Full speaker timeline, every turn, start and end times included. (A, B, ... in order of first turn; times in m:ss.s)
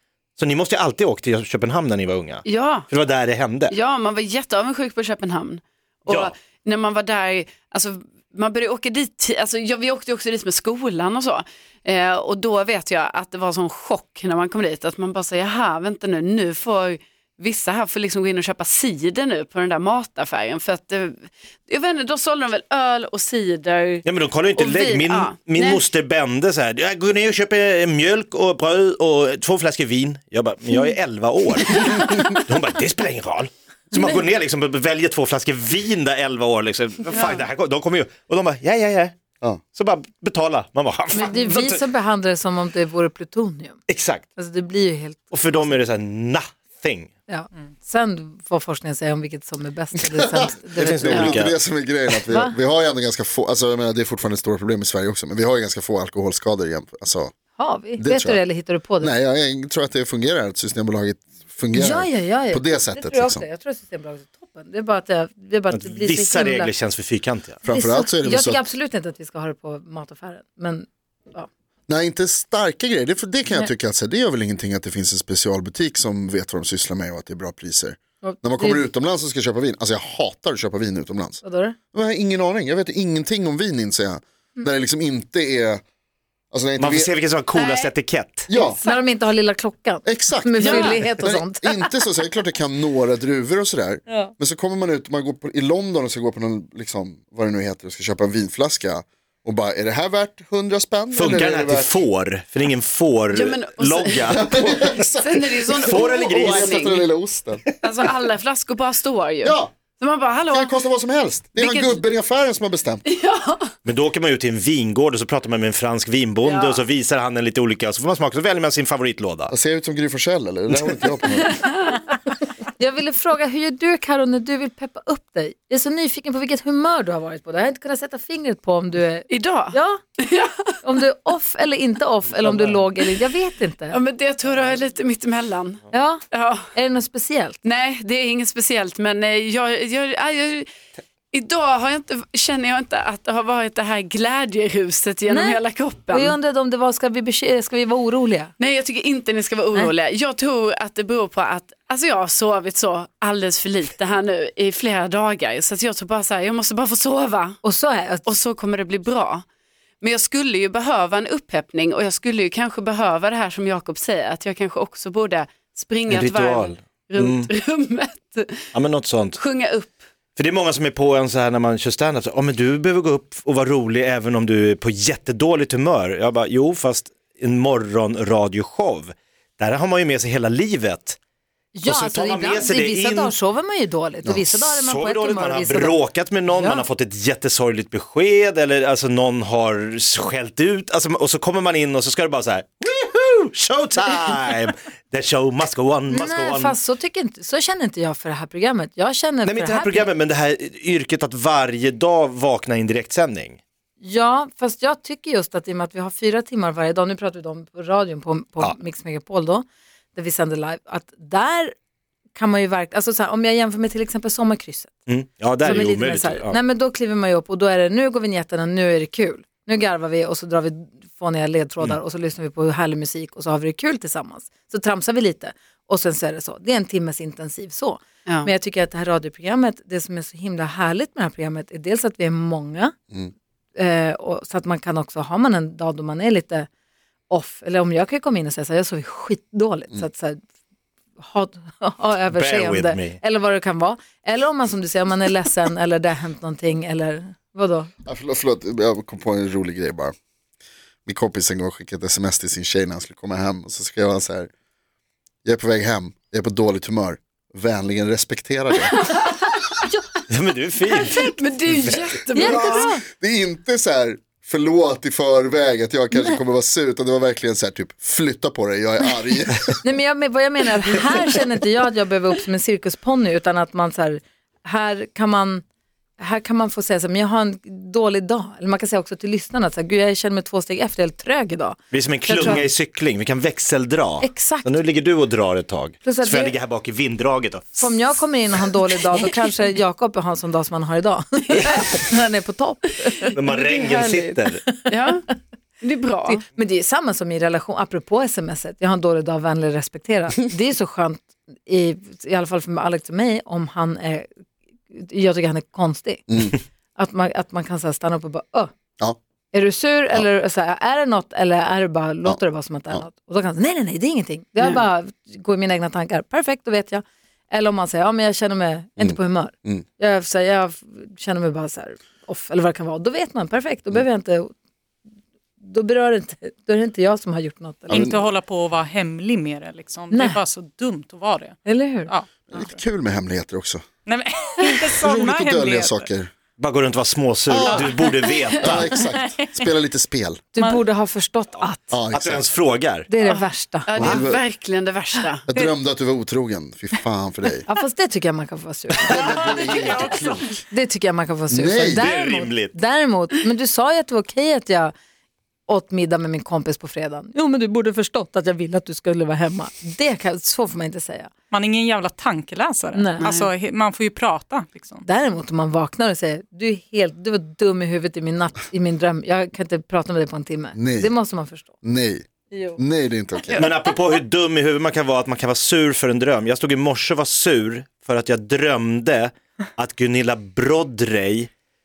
0:00.4-0:03.7 A
0:02.4-0:02.9 B
0:03.7-0:24.0 B
0:06.1-0:06.3 A
0:24.0-0:39.2 A
0:24.6-0:25.8 B
0:37.1-0:37.4 B
0:39.7-0:41.8 A
0:41.1-0:43.8 C
0:43.9-0:44.2 A
0:44.4-0:45.8 C
0:45.3-0:47.1 A
0:47.3-0:51.4 C
0:50.1-0:57.3 D
0:50.8-0:51.5 A
0:52.3-0:52.5 C
0:57.6-0:59.1 C
0:58.0-0:58.4 D
0:59.0-1:03.4 D
1:01.7-1:06.7 C
1:05.7-1:07.6 A
1:07.6-1:08.6 D
1:07.6-1:11.5 C
1:11.9-1:21.4 D
1:18.2-1:18.8 C
1:21.4-1:21.8 C
1:21.9-1:25.8 D
1:26.5-1:27.1 D
1:26.8-1:28.5 A
1:27.5-1:27.9 B
1:28.5-1:28.8 D
1:28.5-1:31.8 C
1:30.0-1:42.0 D
1:30.6-1:31.0 B
1:41.1-1:45.1 A
1:43.3-1:47.0 B
1:44.3-1:47.7 D
1:45.7-1:47.0 A
1:47.8-1:50.8 B
1:49.4-1:49.7 D
1:50.5-1:53.0 D
1:51.6-1:52.0 B
1:53.0-1:53.7 B
1:53.8-1:59.5 A
1:56.4-1:56.8 B
1:59.5-2:01.6 D
2:02.8-2:10.0 C
2:09.3-2:10.7 B
2:10.8-2:14.0 C
2:13.9-2:16.7 B
2:15.9-2:17.6 C
2:17.6-2:20.7 B
2:21.3-2:26.3 B
2:25.3-2:28.5 C
2:28.6-2:37.6 B
2:37.6-2:38.2 C
2:38.2-2:39.4 B
2:40.0-2:48.7 B
2:46.1-2:47.5 A
2:48.7-2:49.4 A
2:49.3-2:50.0 B
2:50.4-3:01.2 A
3:01.7-3:06.8 C
3:01.8-3:03.4 A
3:04.5-3:16.8 A
3:16.1-3:20.1 C
3:19.4-3:23.6 A
3:24.0-3:31.7 C
3:32.3-3:34.9 C
3:35.1-3:36.6 A
3:35.6-3:52.9 C
3:53.8-3:56.7 C
3:57.3-4:00.4 C
4:01.2-4:07.9 C
4:02.3-4:03.2 A
4:08.0-4:10.1 D
4:11.0-4:14.5 D
4:15.4-4:19.0 D
4:18.9-4:19.8 B
4:20.3-4:22.1 A
4:20.9-4:22.9 B
4:22.3-4:23.0 C
4:22.4-4:29.8 D
4:29.8-4:35.6 C
4:36.2-4:42.7 C
4:41.9-4:48.0 A
4:44.2-4:44.8 C
4:46.0-4:46.6 C
4:47.8-4:53.4 C
4:51.6-4:52.0 B
4:53.3-4:54.6 A
4:53.5-4:54.3 B
4:54.6-4:54.9 C
4:54.9-4:55.2 B
4:55.8-4:56.4 B
4:56.2-5:04.3 C
5:04.9-5:08.7 C
5:06.3-5:06.6 D
5:09.5-5:24.5 C
5:12.2-5:13.0 D
5:19.0-5:19.8 D
5:25.6-5:28.2 C
5:27.9-5:32.7 E
5:27.9-5:28.2 D
5:30.1-5:30.4 C
5:31.6-5:32.1 C
5:32.5-5:33.8 D
5:34.0-5:36.1 E
5:34.8-5:36.3 D
5:36.6-5:39.0 A
5:37.5-5:38.0 D
5:38.0-5:38.5 B
5:38.6-5:40.4 D
5:38.8-5:39.6 E
5:40.5-5:41.9 C
5:40.6-5:40.8 E
5:41.9-5:42.4 D
5:42.1-5:43.1 A
5:43.1-5:43.9 C
5:43.9-5:45.4 B
5:44.0-5:44.4 D
5:45.5-5:47.6 D
5:47.6-5:50.0 C
5:49.0-5:50.6 D
5:49.4-5:50.5 E
5:49.7-5:50.0 B
5:50.7-5:54.9 C
5:51.5-5:52.1 D
5:51.9-5:52.7 A
5:55.7-6:01.3 C
6:01.5-6:05.0 E
6:02.9-6:03.3 C
6:03.2-6:03.5 B
6:05.0-6:11.7 C
6:10.8-6:11.2 D
6:11.8-6:12.2 D
6:12.5-6:12.8 C
6:12.8-6:13.7 D
6:13.5-6:21.5 A